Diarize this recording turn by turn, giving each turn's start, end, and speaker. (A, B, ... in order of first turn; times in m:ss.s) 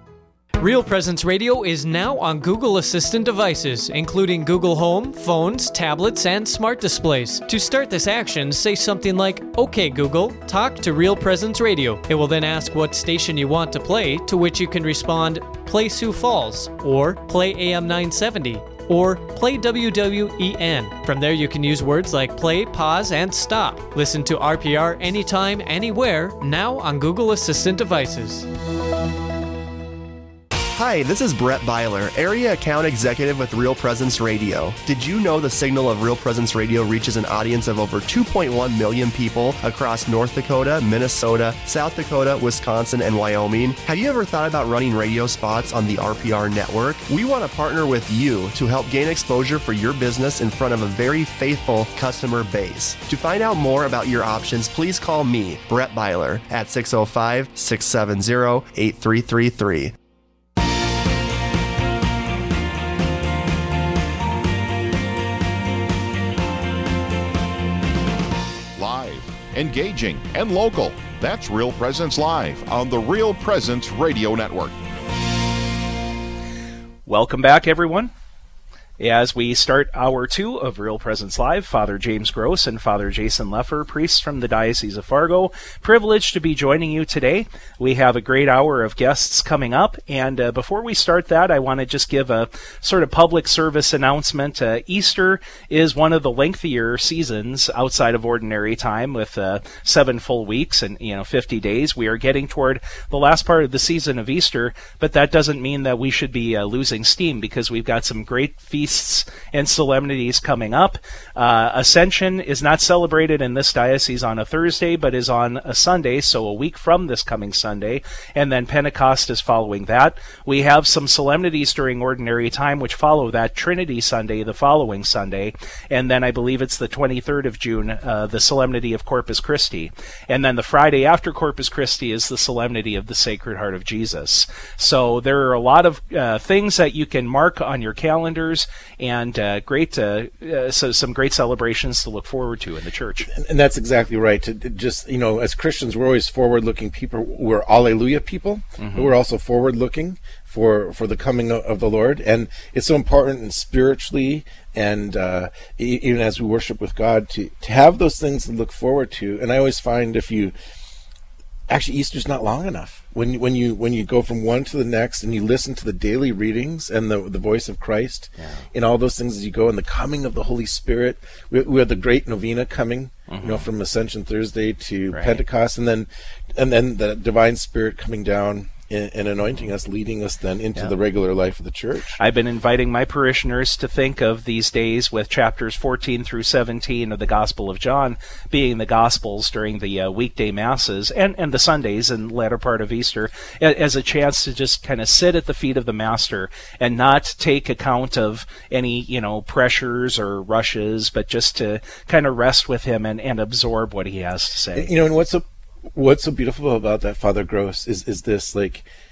0:00.6-0:28.5 A
0:30.7-0:59.9 B
1:08.8-1:14.7 C
1:17.0-1:18.1 D
1:19.0-2:23.3 D
2:23.3-2:40.5 E
2:28.8-2:29.1 D
2:41.7-3:02.2 E
2:48.4-2:48.6 D
2:53.3-2:53.6 D
2:55.1-2:55.4 D
3:02.2-3:24.9 D
3:24.7-3:28.8 E